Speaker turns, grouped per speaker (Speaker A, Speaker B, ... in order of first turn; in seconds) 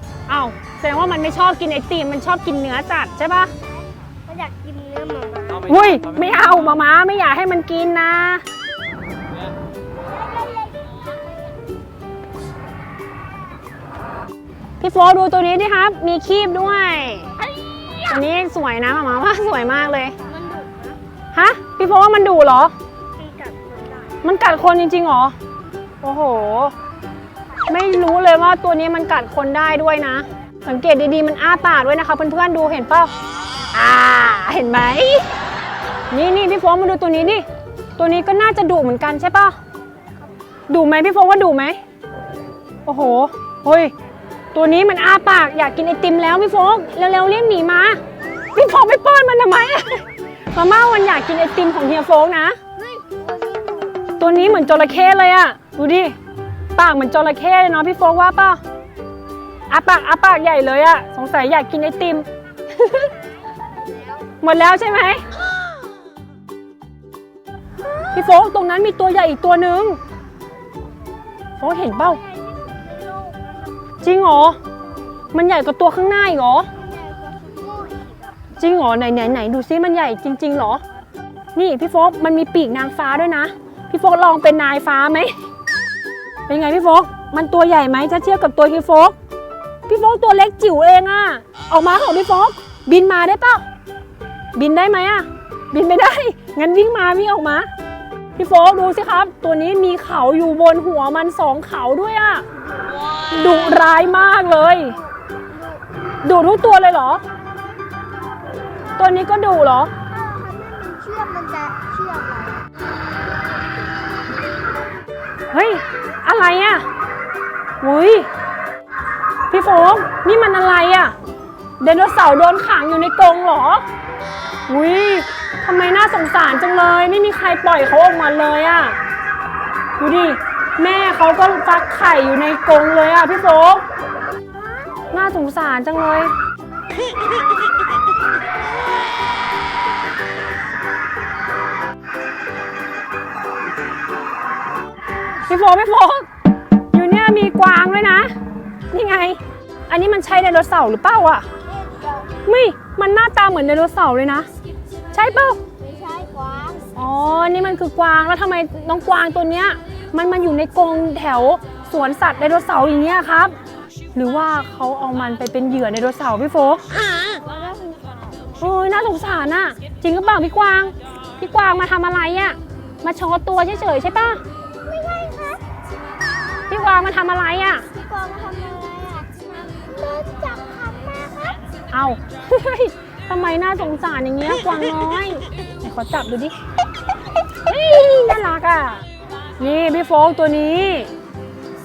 Speaker A: 0.3-3.5, 5.6-8.4, 14.8-17.4, 18.0-20.2, 21.3-22.7, 24.2-25.4, 26.0-26.8, 27.7-33.1, 33.7-35.3, 36.1-37.5, 38.0-39.6, 40.7-41.8, 42.9-43.9, 44.5-48.0, 48.5-52.6, 54.2-56.2, 56.8-58.6, 59.7-63.1, 64.4-65.3, 68.1-70.0, 71.6-72.2, 74.0-74.6, 75.3-76.7, 78.6-80.8, 81.5-85.4, 86.5-89.2, 89.9-93.7, 94.5-97.7, 98.4-102.5, 103.3-105.0, 106.2-107.2, 109.0-109.9, 115.5-116.9, 117.8-118.3, 119.5-121.2, 121.8-123.8, 124.7-129.0, 130.0-133.8, 135.1-136.3, 145.5-146.3, 146.9-148.3, 148.9-151.4, 152.4-154.5, 155.1-155.6, 156.9-163.6, 164.1-166.8, 168.6-174.4, 176.7-177.9, 181.9-186.6, 187.7-189.0, 189.6-191.1
Speaker B: 4.3-5.7, 10.0-11.6, 20.3-21.0, 23.2-24.2, 52.8-54.1, 72.0-73.7, 76.8-78.4, 105.3-105.8, 110.1-112.7, 151.8-152.3, 155.8-156.9, 166.9-168.4, 174.8-175.7, 177.9-181.6